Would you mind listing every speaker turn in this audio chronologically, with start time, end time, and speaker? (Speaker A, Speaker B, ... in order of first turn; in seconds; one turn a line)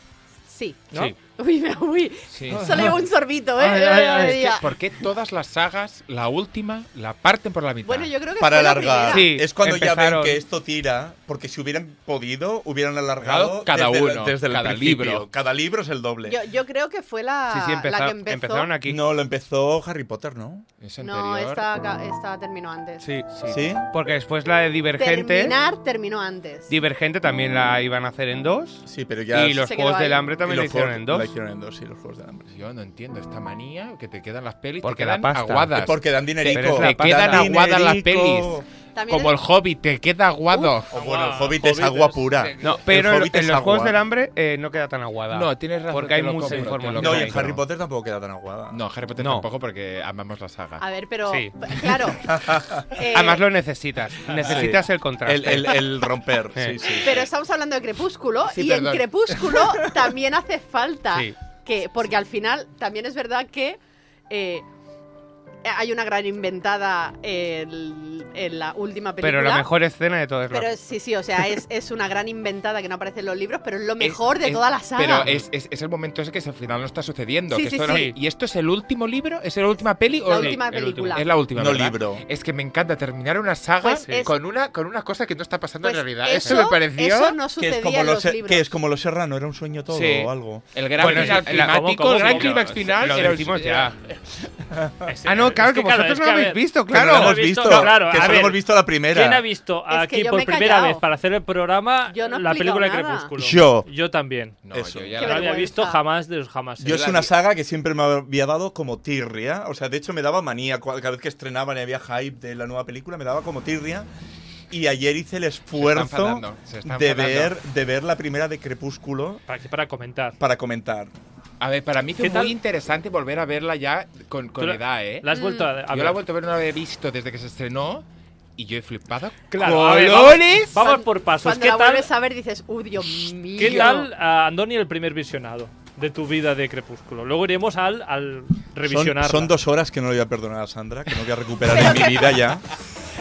Speaker A: 0.5-4.7
Speaker B: 2.3-3.0
Speaker C: 2.6-3.0
Speaker C: 3.6-4.5
Speaker B: 4.2-8.1
Speaker A: 7.8-9.3
Speaker D: 8.4-16.4
Speaker E: 9.1-10.4
Speaker B: 13.2-15.3
Speaker A: 16.3-18.7
Speaker E: 17.5-19.0
Speaker D: 18.9-20.7
Speaker B: 20.8-21.7
Speaker A: 21.0-23.0
Speaker E: 23.0-23.3
Speaker B: 23.3-23.8
Speaker D: 23.5-23.9
Speaker E: 23.9-25.6
Speaker A: 25.0-26.7
Speaker E: 26.7-31.3
Speaker D: 28.9-29.7
Speaker A: 29.6-30.2
Speaker D: 30.4-32.5
Speaker B: 32.5-40.9
Speaker E: 34.8-35.7
Speaker D: 35.7-38.6
Speaker E: 36.5-37.5
Speaker A: 39.0-39.3
Speaker A: 40.5-40.8
Speaker D: 40.9-44.0
Speaker C: 40.9-42.2
Speaker E: 42.6-47.5
Speaker B: 45.3-47.6
Speaker D: 46.5-48.8
Speaker B: 48.7-50.9
Speaker E: 49.2-49.5
Speaker A: 50.8-52.3
Speaker E: 51.3-51.5
Speaker D: 52.3-52.9
Speaker A: 52.9-53.4
Speaker E: 53.1-55.8
Speaker D: 54.5-57.3
Speaker A: 57.0-63.8
Speaker B: 58.4-59.5
Speaker E: 61.1-61.4
Speaker A: 64.3-64.7
Speaker A: 65.7-69.7
Speaker E: 69.2-70.7
Speaker A: 70.5-75.3
Speaker B: 74.0-87.4
Speaker A: 77.5-78.1
Speaker A: 80.3-81.3
Speaker E: 80.3-81.2
Speaker D: 81.5-82.2
Speaker A: 83.8-84.3
Speaker A: 85.8-88.7
Speaker D: 87.6-90.7
Speaker E: 89.9-90.3
Speaker B: 90.7-93.9
Speaker E: 91.0-93.9
Speaker C: 91.1-92.7
Speaker D: 94.7-95.1
Speaker C: 95.1-104.6
Speaker E: 95.2-97.6
Speaker D: 96.9-99.5
Speaker A: 99.9-101.0
Speaker A: 102.1-103.3
Speaker D: 103.4-103.9
Speaker B: 104.7-105.6
Speaker D: 104.7-105.2
Speaker C: 105.2-107.1
Speaker A: 105.2-106.0
Speaker D: 106.8-114.1
Speaker B: 106.9-107.3
Speaker D: 114.7-119.4
Speaker B: 115.7-117.6
Speaker C: 119.5-120.4
Speaker D: 120.4-121.1
Speaker B: 121.6-125.3
Speaker C: 122.2-122.5
Speaker C: 124.6-126.2
Speaker A: 125.3-125.7
Speaker B: 125.9-128.1
Speaker B: 128.6-130.8
Speaker C: 129.5-132.1
Speaker E: 129.8-130.4
Speaker A: 130.8-134.1
Speaker C: 133.6-139.5
Speaker D: 138.8-142.7
Speaker A: 141.7-142.3